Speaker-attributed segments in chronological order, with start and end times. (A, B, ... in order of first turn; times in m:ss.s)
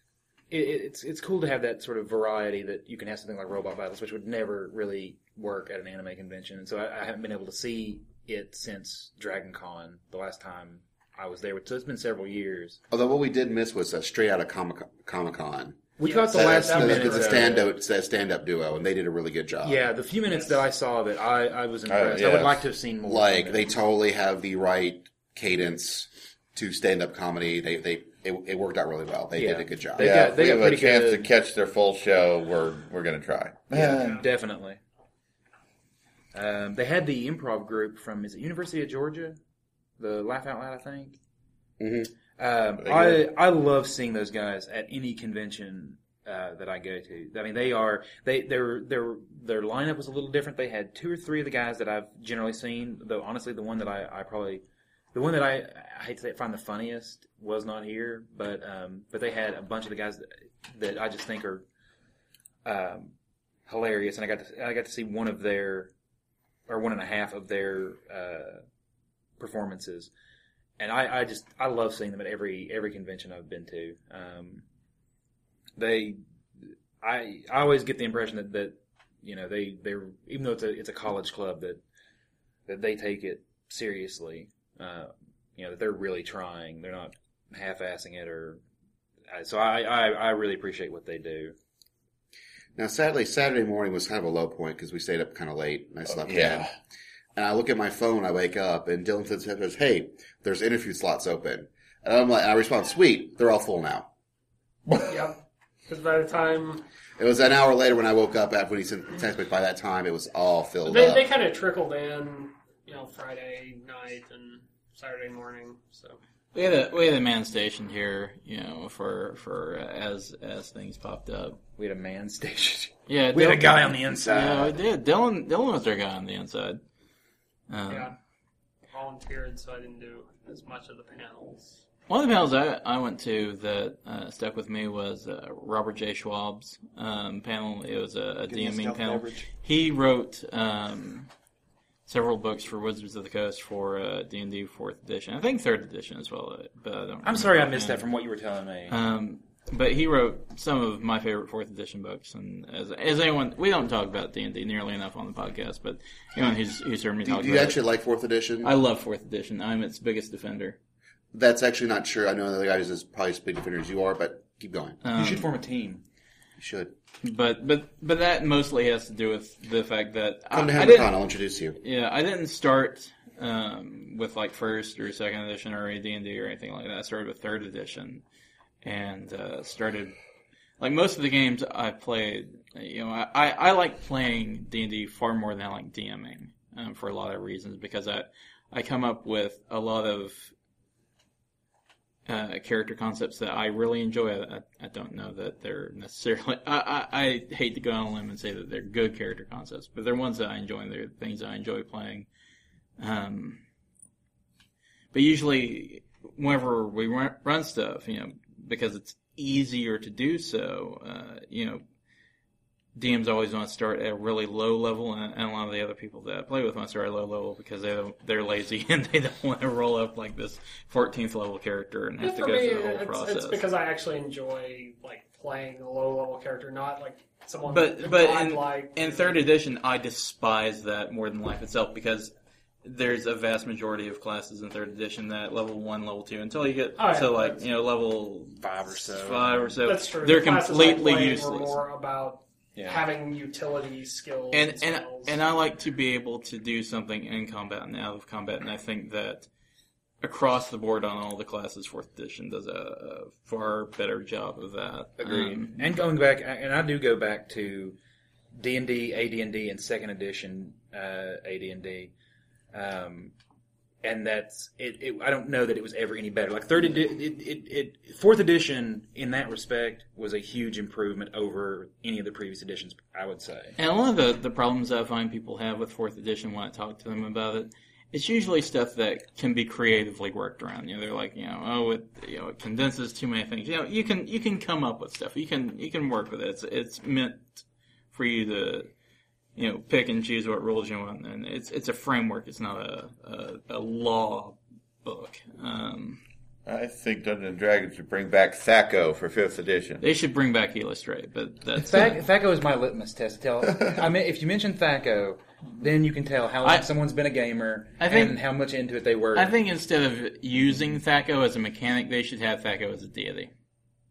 0:00.5-0:12.8 A
0:12.9-0:15.8 B
0:16.0-0:17.7 A
0:16.0-0:17.6 C
0:16.3-0:19.8 B
0:19.6-0:23.7 A
0:20.3-0:20.6 C
0:21.9-0:22.6 D
0:23.1-0:30.2 B
0:29.4-0:31.3 A
0:30.0-0:34.2 D
0:33.7-0:34.8 A
0:33.9-0:34.2 C
0:36.3-0:39.4 A
0:40.0-0:41.2 A
0:41.8-0:42.1 B
0:42.4-0:54.6 A
0:42.8-0:43.2 D
0:55.1-1:01.7 A
1:02.6-1:03.1 A
1:03.7-1:05.9 A
1:06.7-1:08.6 A
1:09.4-1:10.1 A
1:10.8-1:14.6 A
1:15.8-1:16.2 A
1:17.0-1:21.8 A
1:22.7-1:28.6 A
1:29.3-1:31.6 A
1:32.8-1:36.7 B
1:36.1-1:36.7 D
1:37.4-1:44.1 B
1:44.9-1:45.2 D
1:45.1-1:46.8 C
1:47.2-1:51.3 B
1:50.9-1:56.2 C
1:56.5-2:01.6 E
2:01.8-2:04.8 A
2:03.1-2:06.8 E
2:07.7-2:08.1 E
2:07.9-2:08.1 C
2:08.9-2:11.8 C
2:12.1-2:21.3 E
2:18.5-2:19.5 A
2:22.1-2:28.0 E
2:27.2-2:29.0 A
2:28.9-2:37.8 E
2:37.2-2:38.7 B
2:38.6-2:40.8 E
2:41.3-2:45.0 B
2:45.0-2:45.5 E
2:45.1-2:46.0 A
2:46.6-2:46.9 B
2:47.2-2:51.2 E
2:50.5-2:51.8 B
2:51.8-2:58.2 E
2:58.8-3:00.1 E
3:00.8-3:10.5 E
3:12.3-3:22.3 E
3:23.0-3:23.6 E
3:25.1-3:31.8 E
3:33.0-3:43.6 E
3:42.2-3:49.4 C
3:47.7-3:52.3 E
3:52.8-4:01.8 E
3:57.0-3:57.6 C
3:58.6-3:59.8 A
3:59.8-4:05.4 C
4:02.8-4:03.0 A
4:04.5-4:09.5 E
4:10.2-4:15.9 E
4:15.2-4:18.0 A
4:18.6-4:22.1 A
4:22.7-4:23.3 A
4:24.0-4:33.8 A
4:33.8-4:48.9 E
4:49.6-4:56.2 E
4:56.7-5:00.0 D
5:00.0-5:02.2 E
5:01.8-5:09.5 A
5:06.6-5:06.9 E
5:08.0-5:08.4 E
5:09.3-5:13.5 E